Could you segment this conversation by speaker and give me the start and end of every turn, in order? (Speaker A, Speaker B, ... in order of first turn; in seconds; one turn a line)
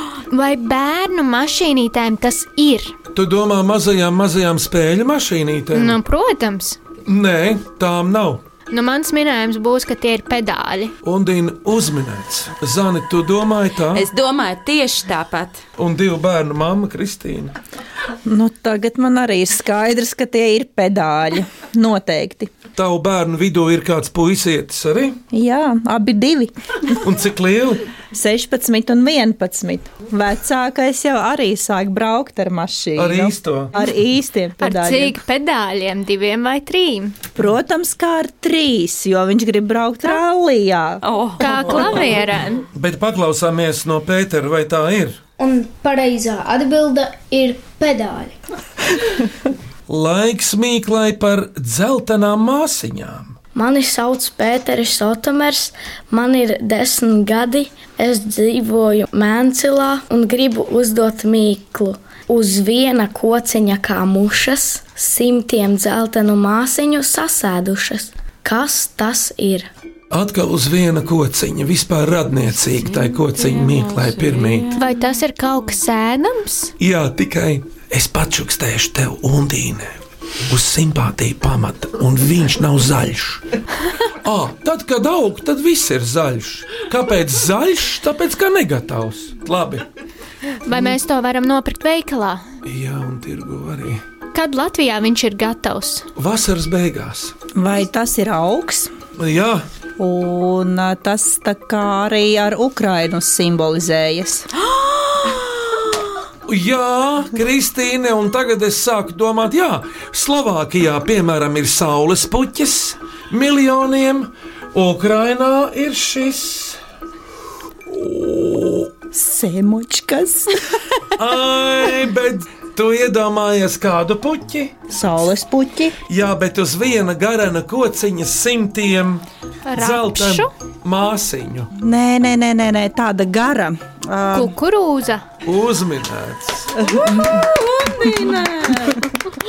Speaker A: 0.3-2.9
Speaker B: 3.1-6.0
Speaker A: 5.7-6.8
Speaker B: 7.1-8.4
Speaker A: 8.7-10.9
Speaker B: 11.0-14.1
Speaker C: 13.9-15.6
Speaker B: 15.8-17.5
Speaker D: 18.3-22.5
Speaker B: 22.8-25.2
Speaker D: 25.3-26.5
Speaker B: 27.0-27.8
Speaker D: 28.1-35.2
Speaker B: 33.0-33.7
Speaker A: 34.6-37.2
Speaker D: 37.4-41.0
Speaker C: 41.0-42.1
Speaker A: 41.4-42.6
Speaker B: 42.7-45.2
Speaker E: 45.4-48.4
Speaker B: 49.9-53.4
Speaker E: 53.5-69.7
Speaker B: 70.1-74.7
Speaker C: 72.8-75.0
Speaker A: 74.8-76.7
Speaker B: 76.8-83.4
Speaker B: 84.2-89.8
Speaker A: 90.7-92.4
Speaker B: 92.7-94.0
Speaker A: 94.3-96.1
Speaker B: 96.2-97.3
Speaker D: 97.5-98.9
Speaker B: 99.2-99.7
Speaker D: 100.0-104.5
Speaker C: 104.7-105.8
Speaker B: 106.5-116.8
Speaker B: 117.9-118.9
Speaker D: 119.1-120.5
Speaker B: 121.2-124.8
Speaker D: 124.9-126.0
Speaker B: 126.1-129.2
Speaker A: 129.7-130.5
Speaker B: 129.8-131.7
Speaker D: 131.8-134.6
Speaker A: 134.3-135.2
Speaker B: 135.4-136.7
Speaker D: 136.8-137.4
Speaker C: 136.8-139.1